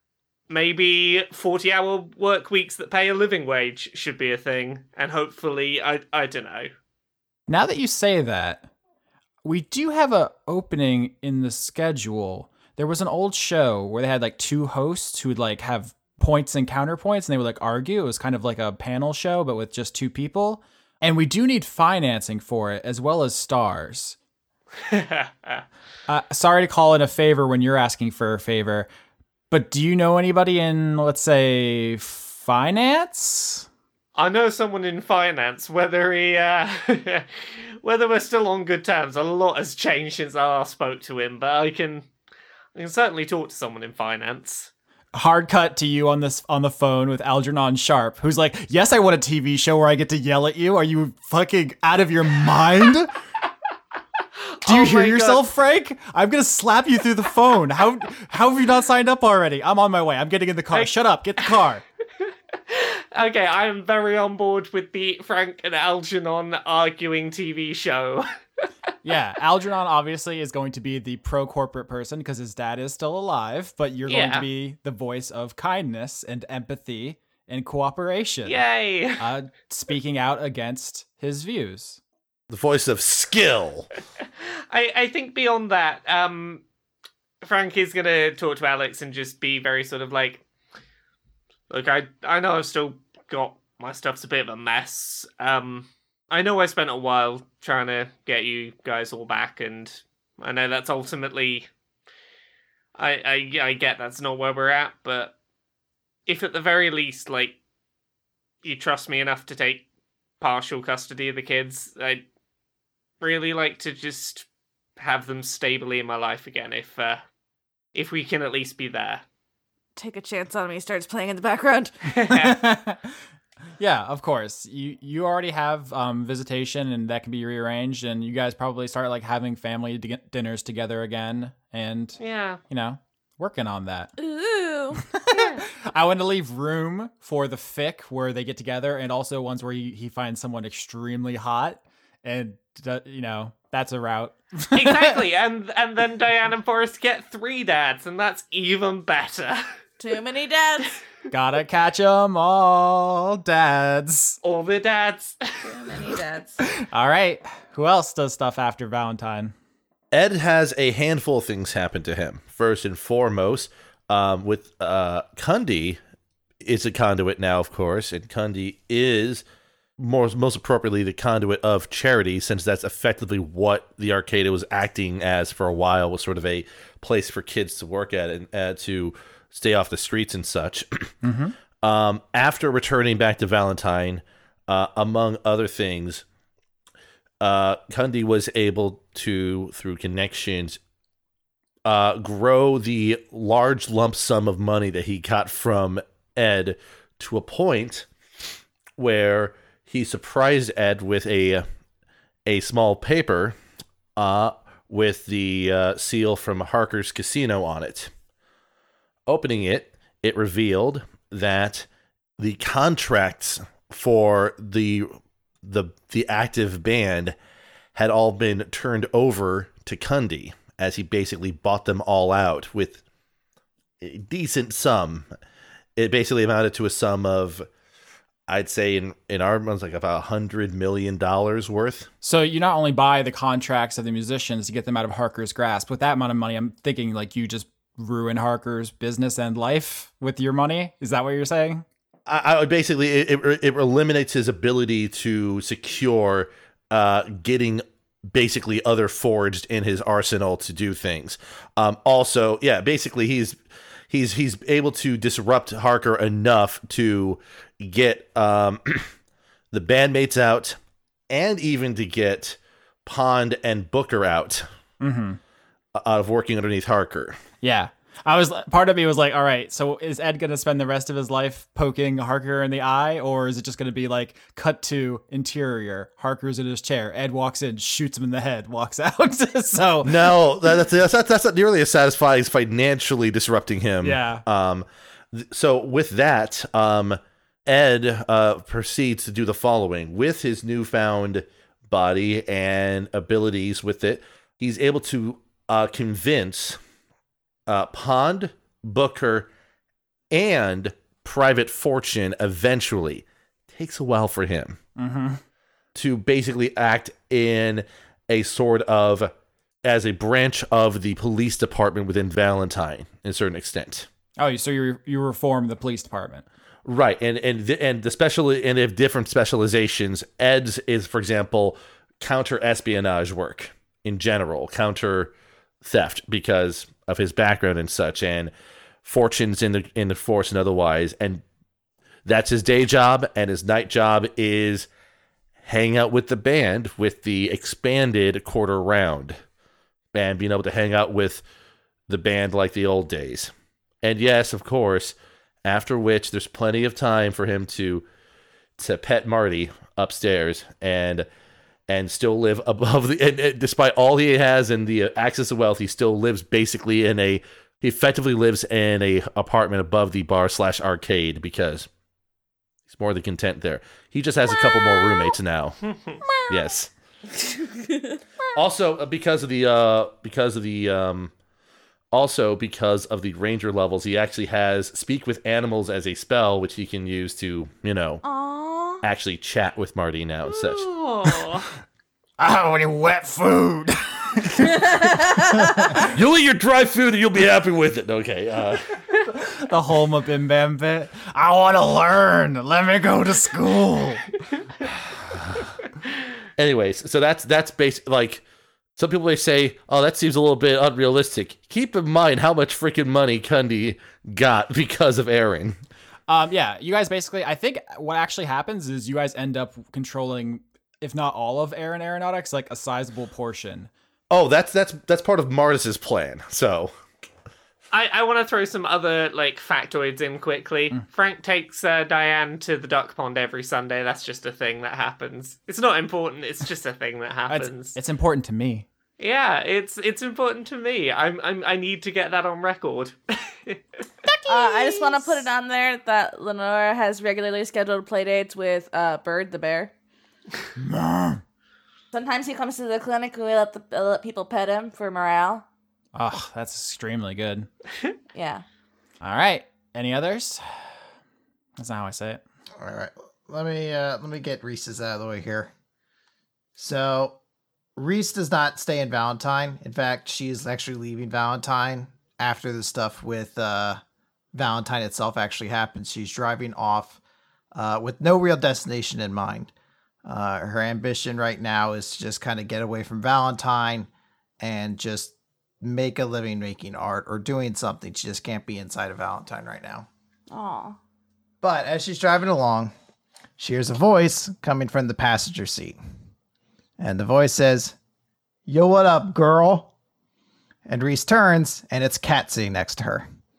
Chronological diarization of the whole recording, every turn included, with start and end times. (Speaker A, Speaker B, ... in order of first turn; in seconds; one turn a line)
Speaker A: 0.5-6.7
Speaker B: 7.5-8.7
Speaker B: 9.4-24.2
Speaker A: 24.9-25.6
Speaker B: 26.1-28.9
Speaker B: 29.5-33.7
Speaker A: 34.2-37.3
Speaker A: 37.8-42.1
Speaker A: 42.7-44.7
Speaker B: 45.1-53.1
Speaker A: 54.6-55.4
Speaker B: 54.6-61.8
Speaker A: 62.7-68.3
Speaker B: 69.0-78.6
Speaker A: 74.1-74.5
Speaker A: 78.5-79.2
Speaker B: 79.2-82.0
Speaker C: 82.5-83.9
Speaker A: 84.7-86.6
Speaker A: 87.4-90.4
Speaker A: 91.7-101.7
Speaker A: 103.0-105.3
Speaker A: 106.3-107.6
Speaker A: 108.6-109.8
Speaker A: 110.4-112.2
Speaker A: 113.2-114.5
Speaker A: 115.0-117.2
Speaker A: 117.9-119.2
Speaker D: 120.0-121.9
Speaker A: 122.1-122.5
Speaker B: 122.2-123.1
Speaker B: 123.8-132.2
Speaker A: 132.2-132.6
Speaker B: 132.7-134.1
Speaker D: 134.2-135.0
Speaker B: 135.1-145.2
Speaker A: 135.3-135.6
Speaker A: 144.7-149.7
Speaker D: 150.0-151.0
Speaker B: 151.3-154.4
Speaker A: 154.4-155.4
Speaker D: 155.7-156.6
Speaker B: 156.6-159.5
Speaker C: 160.1-166.0
Speaker C: 166.6-169.4
Speaker C: 170.0-181.2
Speaker B: 181.2-181.5
Speaker C: 181.8-186.2
Speaker C: 187.4-190.8
Speaker C: 191.8-198.1
Speaker C: 199.0-201.7
Speaker C: 202.4-203.6
Speaker C: 204.2-208.1
Speaker C: 209.3-211.9
Speaker C: 212.4-217.3
Speaker C: 217.9-223.0
Speaker C: 224.0-225.3
Speaker C: 226.0-227.7
Speaker C: 228.5-232.1
Speaker B: 232.2-241.8
Speaker C: 242.3-253.6
Speaker C: 254.1-259.1
Speaker C: 259.7-260.8
Speaker C: 261.3-264.7
Speaker B: 265.0-265.4
Speaker C: 265.9-267.4
Speaker B: 267.6-280.4
Speaker C: 280.0-296.8
Speaker B: 284.0-284.4
Speaker C: 297.7-299.5
Speaker C: 300.3-304.8
Speaker B: 304.9-305.4
Speaker C: 305.9-309.3
Speaker C: 309.8-314.1
Speaker B: 314.4-316.4
Speaker C: 316.9-325.3
Speaker C: 325.8-328.5
Speaker C: 329.0-331.4
Speaker C: 332.3-334.9
Speaker C: 335.6-339.4
Speaker C: 340.1-341.4
Speaker C: 342.1-343.5
Speaker C: 344.0-348.1
Speaker C: 348.8-351.3
Speaker C: 351.9-361.9
Speaker C: 362.9-365.8
Speaker D: 364.7-365.3
Speaker D: 366.3-366.6
Speaker C: 366.5-366.9
Speaker D: 367.4-368.2
Speaker C: 368.6-371.3
Speaker C: 372.1-378.2
Speaker D: 378.2-379.0
Speaker C: 379.0-380.9
Speaker A: 380.5-381.7
Speaker B: 382.4-386.1
Speaker C: 386.1-388.8
Speaker B: 389.3-394.2
Speaker C: 396.6-398.4
Speaker C: 399.0-405.8
Speaker B: 406.3-413.9
Speaker C: 414.3-416.9
Speaker A: 417.9-427.9
Speaker B: 427.5-428.9
Speaker A: 429.2-433.8
Speaker B: 434.3-435.4
Speaker D: 434.5-439.9
Speaker B: 440.8-441.4
Speaker D: 442.1-445.6
Speaker B: 446.1-447.7
Speaker D: 448.3-448.6
Speaker B: 449.2-450.6
Speaker B: 451.8-452.4
Speaker E: 452.8-455.7
Speaker E: 456.8-457.4
Speaker E: 457.9-464.0
Speaker E: 464.5-467.2
Speaker E: 467.7-469.7
Speaker E: 470.2-474.1
Speaker E: 474.6-480.1
Speaker D: 480.5-481.0
Speaker E: 481.6-482.9
Speaker E: 483.6-486.0
Speaker E: 487.0-487.9
Speaker E: 488.7-489.9
Speaker E: 490.9-493.3